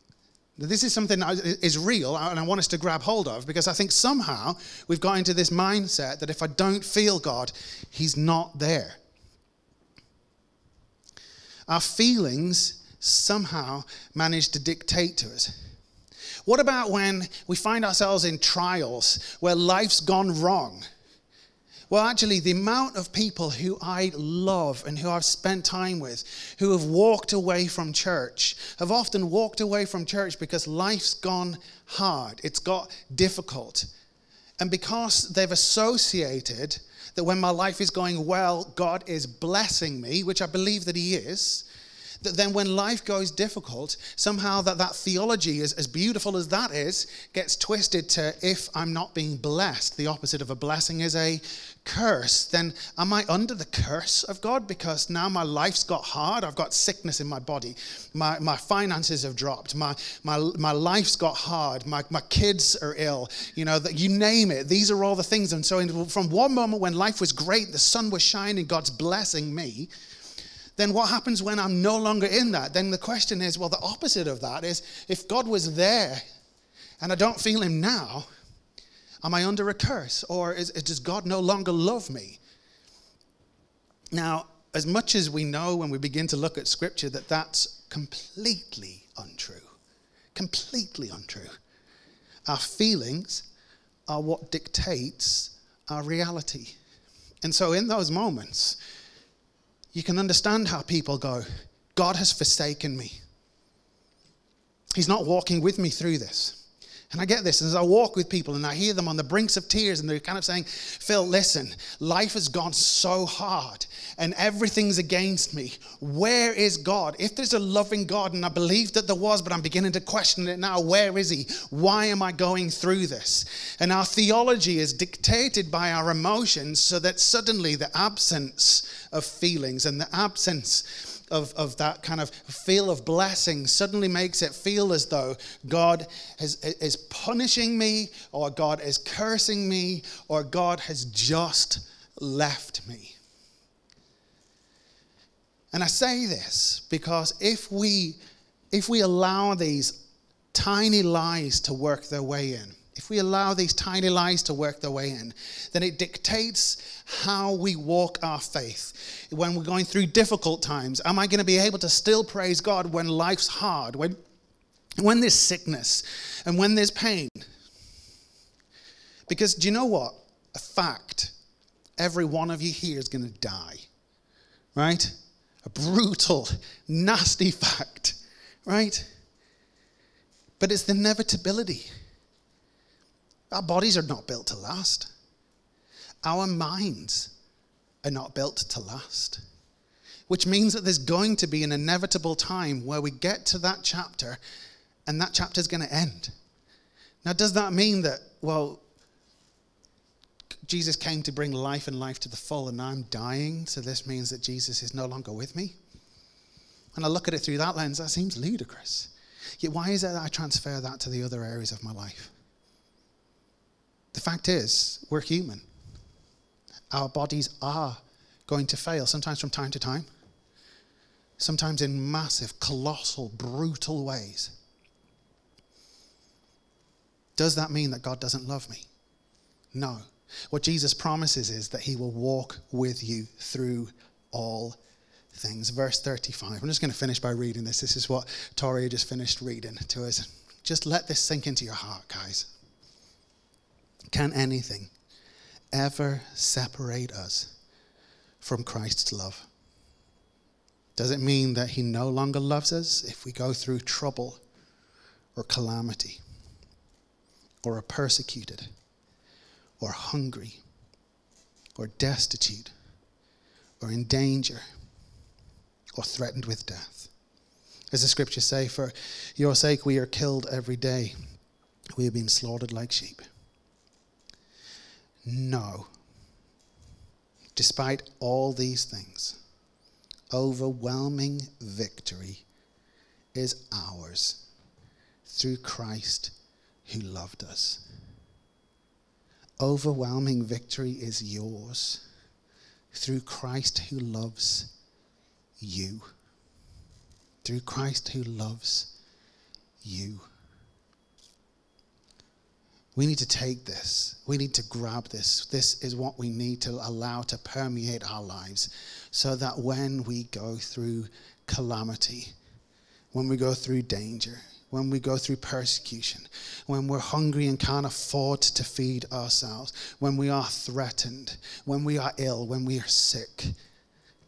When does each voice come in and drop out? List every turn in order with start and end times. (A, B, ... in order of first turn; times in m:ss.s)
0:00.6-0:09.0 A
0:11.7-0:15.5 A
0:16.4-0:20.8 A
0:21.9-0:33.9 A
0:34.6-0:41.6 A
0:42.2-1:09.9 A
1:10.8-1:16.2 A
1:17.0-1:18.3 A
1:19.2-1:22.4 A
1:24.1-1:29.7 A
1:30.3-1:31.5 A
1:32.5-1:33.4 A
1:34.1-1:36.8 A
1:37.4-1:38.8 A
1:39.9-1:43.2 A
1:45.0-1:46.6 A
1:47.1-2:23.2 A
2:25.7-2:28.2 A
2:28.7-2:30.0 A
2:30.5-2:44.2 A
2:45.0-2:47.5 A
2:49.3-2:51.3 A
2:52.0-2:53.9 A
2:54.8-2:55.1 A
2:55.6-2:59.1 A
3:00.6-3:01.9 A
3:03.5-3:05.1 A
3:06.2-3:07.3 A
3:08.0-3:09.4 A
3:10.3-3:14.4 A
3:15.1-3:16.3 A
3:17.2-3:18.8 A
3:20.7-3:25.8 A
3:26.9-3:32.3 A
3:34.1-3:35.6 A
3:36.9-3:40.1 A
3:41.4-3:44.5 A
3:47.4-3:48.9 A
3:49.7-3:54.8 A
3:55.3-4:02.5 A
4:04.1-4:04.9 A
4:05.7-4:07.5 A
4:08.4-4:09.5 A
4:11.0-4:14.4 A
4:15.4-4:16.2 A
4:17.6-4:18.7 A
4:19.8-4:20.6 A
4:21.8-4:22.7 A
4:23.8-4:24.6 A
4:26.0-4:27.1 A
4:27.9-4:31.2 A
4:32.0-4:33.2 A
4:35.2-4:35.9 A
4:37.6-4:39.4 A
4:40.3-4:42.4 A
4:43.3-4:44.4 A
4:45.3-4:46.3 A
4:46.8-4:47.8 A
4:49.6-4:52.0 A
4:52.9-4:54.7 A
4:55.6-4:56.1 A
4:57.4-4:58.9 A
4:59.8-5:00.2 A
5:02.9-5:12.3 A
5:13.1-5:23.5 A